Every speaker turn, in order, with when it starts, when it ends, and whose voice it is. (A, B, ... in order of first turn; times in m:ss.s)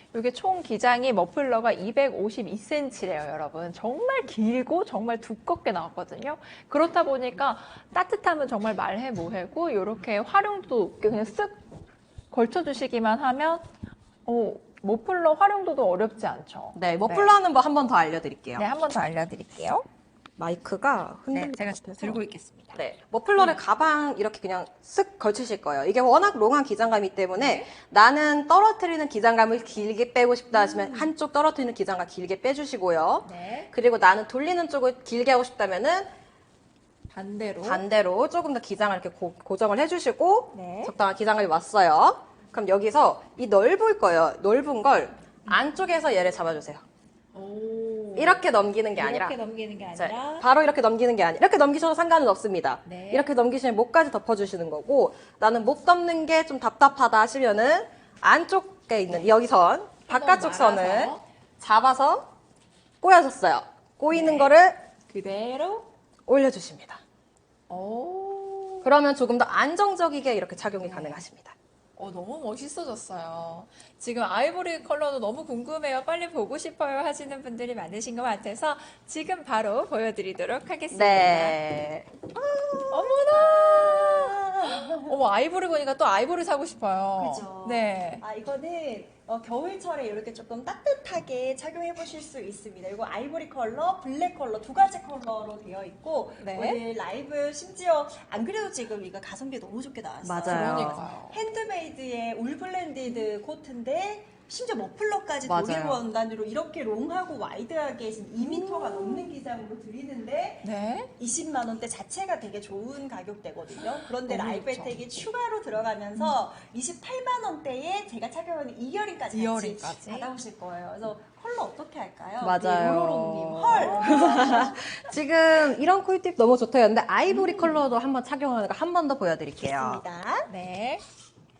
0:00.1-0:11.6 A
0:12.3-0:13.7 A
0:14.2-0:17.3 A
0:16.7-0:18.6 B
0:18.6-0:19.8 A
0:20.4-0:22.2 B
0:21.3-0:22.8 A
0:22.7-0:36.1 B
0:27.4-0:27.7 A
0:30.5-0:31.1 A
0:33.2-0:33.7 A
0:37.1-0:37.8 A
0:37.6-0:46.8 B
0:40.5-0:40.9 A
0:47.3-0:48.4 A
0:48.2-0:49.4 B
0:49.0-0:50.5 A
0:49.9-1:02.3 B
0:52.8-0:53.3 A
1:00.1-1:01.2 A
1:03.0-1:04.8 B
1:04.1-1:04.5 A
1:05.1-1:05.9 A
1:06.3-1:07.0 B
1:07.7-1:08.9 A
1:08.8-1:11.6 B
1:10.8-1:11.2 A
1:12.0-1:21.6 A
1:20.9-1:22.2 B
1:22.4-1:25.2 C
1:22.9-1:28.2 A
1:27.1-2:05.0 C
1:36.4-1:36.8 A
1:40.2-1:41.0 B
1:40.4-1:41.4 A
1:45.4-1:46.0 B
1:48.4-1:49.3 A
1:50.6-1:51.1 A
1:53.8-1:55.0 A
1:59.3-2:00.3 A
2:02.4-2:10.0 B
2:03.6-2:04.7 A
2:07.4-2:07.7 A
2:09.6-2:10.5 C
2:10.5-2:11.0 A